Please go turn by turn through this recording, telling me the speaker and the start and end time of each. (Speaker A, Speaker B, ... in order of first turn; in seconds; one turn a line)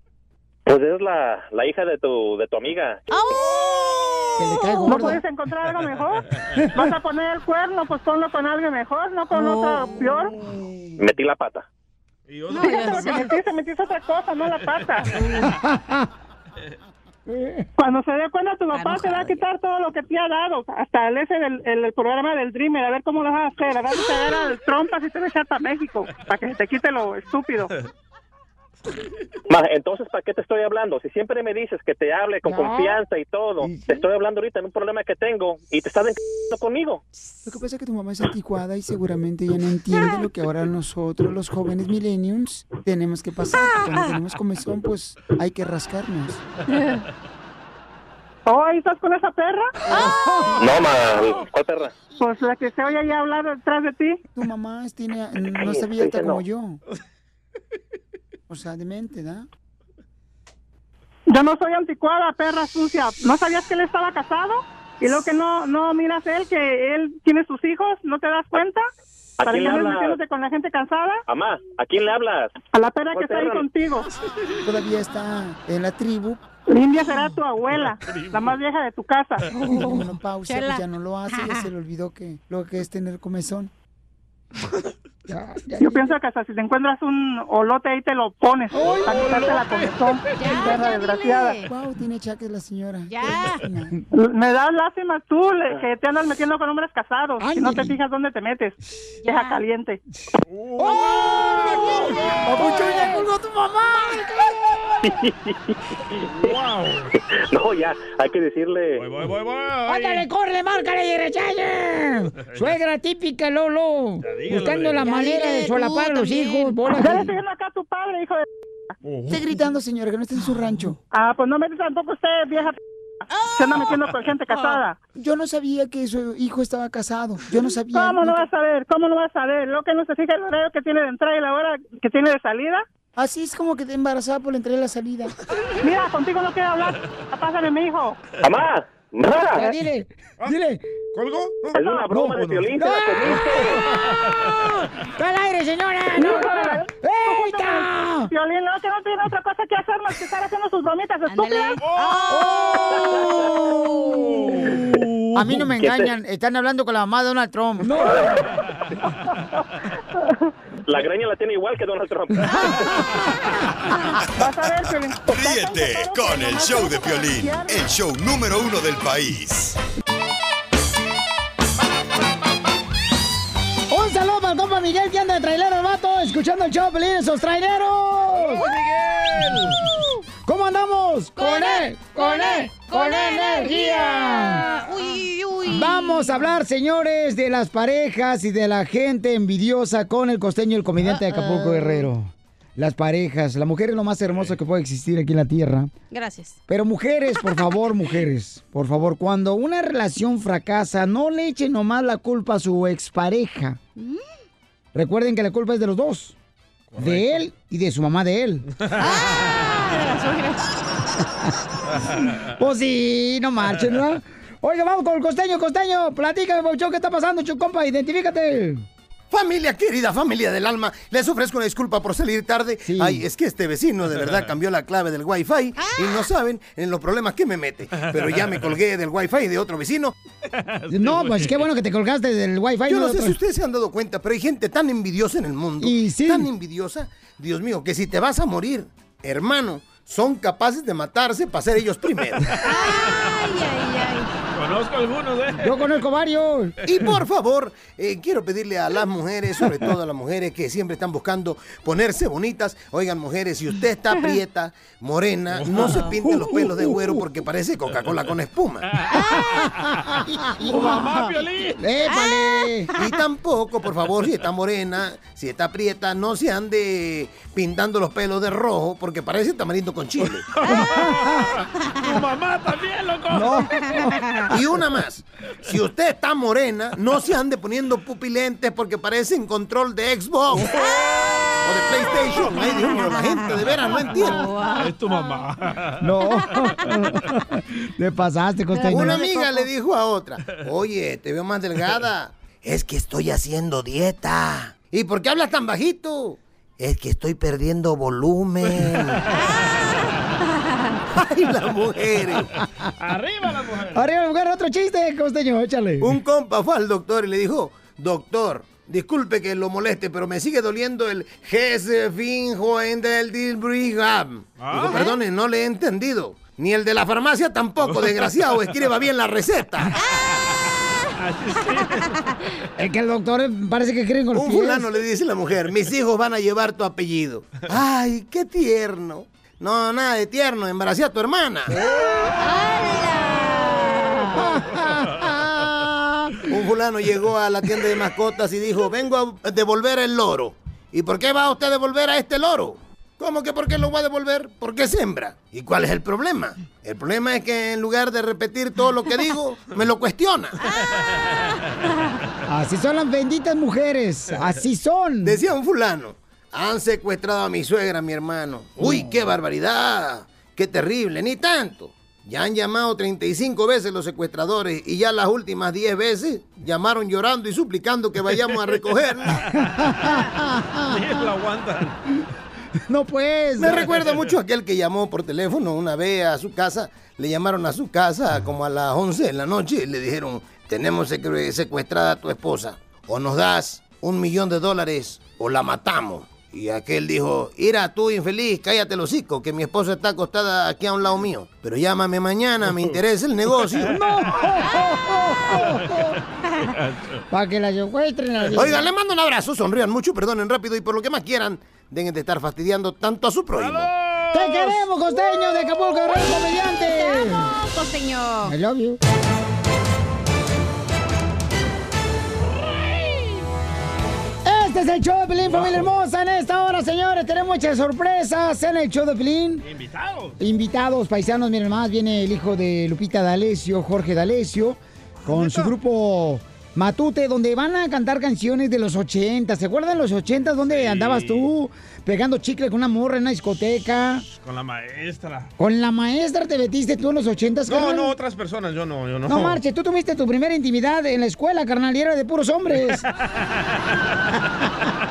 Speaker A: 0.7-3.0
Speaker B: 3.1-5.1
Speaker C: 4.4-5.2
Speaker D: 4.9-6.2
Speaker D: 6.8-10.3
Speaker B: 9.3-10.3
Speaker A: 11.0-11.7
Speaker E: 12.3-13.3
Speaker B: 12.5-13.3
Speaker D: 12.7-15.1
Speaker E: 14.5-15.5
Speaker C: 15.6-16.1
Speaker C: 17.3-17.6
Speaker D: 17.8-27.7
Speaker B: 18.7-19.4
Speaker A: 29.5-37.0
Speaker C: 32.4-33.0
Speaker C: 33.6-34.0
Speaker C: 37.5-46.4
Speaker B: 39.9-40.2
Speaker B: 43.6-44.1
Speaker D: 48.5-49.7
Speaker C: 49.9-50.7
Speaker A: 50.6-51.9
Speaker D: 52.2-54.2
Speaker C: 54.3-56.8
Speaker A: 55.6-56.4
Speaker C: 58.5-59.5
Speaker D: 61.3-68.9
Speaker A: 69.4-70.2
Speaker D: 69.4-71.2
Speaker A: 71.3-72.5
Speaker D: 72.7-74.1
Speaker A: 73.1-73.6
Speaker C: 74.6-76.4
Speaker D: 76.7-79.5
Speaker E: 77.7-78.5
Speaker C: 79.6-83.7
Speaker B: 79.7-81.7
Speaker C: 85.3-86.1
Speaker D: 85.8-91.6
Speaker C: 88.7-89.3
Speaker E: 88.8-89.9
Speaker B: 90.4-91.7
Speaker C: 91.6-93.9
Speaker B: 93.1-93.6
Speaker D: 94.1-100.0
Speaker C: 97.4-98.0
Speaker B: 99.2-99.6
Speaker E: 100.5-103.0
Speaker C: 100.8-104.9
Speaker B: 101.0-101.8
Speaker A: 105.0-105.5
Speaker E: 106.4-107.1
Speaker A: 107.5-109.0
Speaker E: 109.0-110.2
Speaker C: 109.9-117.3
Speaker E: 112.5-112.8
Speaker E: 114.2-115.1
Speaker B: 115.0-116.9
Speaker D: 117.0-118.5
Speaker E: 119.0-119.4
Speaker C: 119.3-121.0
Speaker D: 121.1-122.8
Speaker B: 123.3-123.8
Speaker D: 123.5-125.0
Speaker B: 124.5-124.8
Speaker C: 125.2-128.4
Speaker D: 127.9-132.8
Speaker C: 133.2-135.3
Speaker D: 135.8-138.2
Speaker A: 138.4-139.6
Speaker C: 139.5-140.8
Speaker E: 141.1-142.6
Speaker A: 141.7-143.8
Speaker C: 142.1-143.9
Speaker C: 145.1-148.3
Speaker D: 146.1-151.8
Speaker B: 151.3-154.5
Speaker E: 151.8-152.9
Speaker C: 152.3-154.4
Speaker E: 154.4-155.0
Speaker C: 155.3-158.2
Speaker A: 155.8-156.1
Speaker A: 160.9-162.8
Speaker C: 162.5-163.0
Speaker D: 164.3-167.9
Speaker F: 165.2-169.8
Speaker C: 173.9-178.7
Speaker E: 178.3-179.7
Speaker C: 180.4-184.6
Speaker B: 181.4-186.5
Speaker C: 185.7-195.9
Speaker B: 191.1-192.1
Speaker B: 196.1-196.6
Speaker C: 196.7-203.8
Speaker C: 204.9-206.3
Speaker E: 206.9-207.4
Speaker C: 207.0-208.7
Speaker E: 208.8-209.2
Speaker B: 209.0-210.6
Speaker C: 212.6-218.8
Speaker G: 219.3-230.1
Speaker C: 222.8-223.2
Speaker E: 224.2-224.5
Speaker B: 225.8-226.2
Speaker E: 228.0-228.7
Speaker E: 230.5-231.7
Speaker C: 230.9-233.4
Speaker G: 232.9-242.5
Speaker C: 235.8-236.5
Speaker E: 242.5-243.4
Speaker B: 242.6-244.3
Speaker E: 244.5-245.9
Speaker C: 245.6-246.8
Speaker G: 246.9-258.9
Speaker E: 255.5-256.0
Speaker C: 256.0-257.2
Speaker E: 258.9-259.6
Speaker B: 259.1-259.6
Speaker C: 260.3-261.2
Speaker E: 260.6-261.8
Speaker C: 261.8-262.9
Speaker B: 262.1-263.1
Speaker G: 263.0-270.4
Speaker E: 270.2-273.7
Speaker B: 270.7-270.9
Speaker C: 273.3-273.6
Speaker B: 274.0-274.5
Speaker G: 274.5-280.7
Speaker E: 280.7-281.4
Speaker G: 281.6-284.5
Speaker B: 283.9-285.4
Speaker E: 284.3-286.1
Speaker C: 286.0-289.3
Speaker B: 288.7-289.7
Speaker G: 288.9-299.2
Speaker B: 299.4-299.7
Speaker G: 301.2-302.5
Speaker E: 303.0-304.1
Speaker C: 303.9-306.1
Speaker G: 306.0-319.9
Speaker E: 314.6-315.1
Speaker E: 317.8-318.8
Speaker E: 321.2-322.2
Speaker C: 322.8-324.9
Speaker G: 324.3-331.8
Speaker B: 331.9-334.5
Speaker C: 334.3-336.4
Speaker G: 336.5-350.6
Speaker B: 350.6-352.1
Speaker C: 352.5-355.4
Speaker G: 355.2-369.4
Speaker E: 368.4-368.8
Speaker C: 369.8-371.1
Speaker E: 370.8-372.0
Speaker C: 372.9-373.8
Speaker G: 373.6-393.9
Speaker E: 373.6-374.4
Speaker C: 393.8-396.1
Speaker E: 393.9-394.6
Speaker E: 395.5-396.0
Speaker E: 396.7-397.2
Speaker C: 397.3-398.9
Speaker G: 398.5-403.9
Speaker E: 403.5-404.8
Speaker C: 404.3-407.5
Speaker B: 406.1-408.6
Speaker C: 408.4-409.0
Speaker C: 414.4-419.6
Speaker E: 415.5-415.9
Speaker E: 419.6-420.4
Speaker C: 420.4-434.2
Speaker E: 425.2-425.7
Speaker E: 430.7-431.5
Speaker E: 434.4-435.5
Speaker C: 435.6-438.1
Speaker E: 437.7-439.6
Speaker C: 439.3-443.1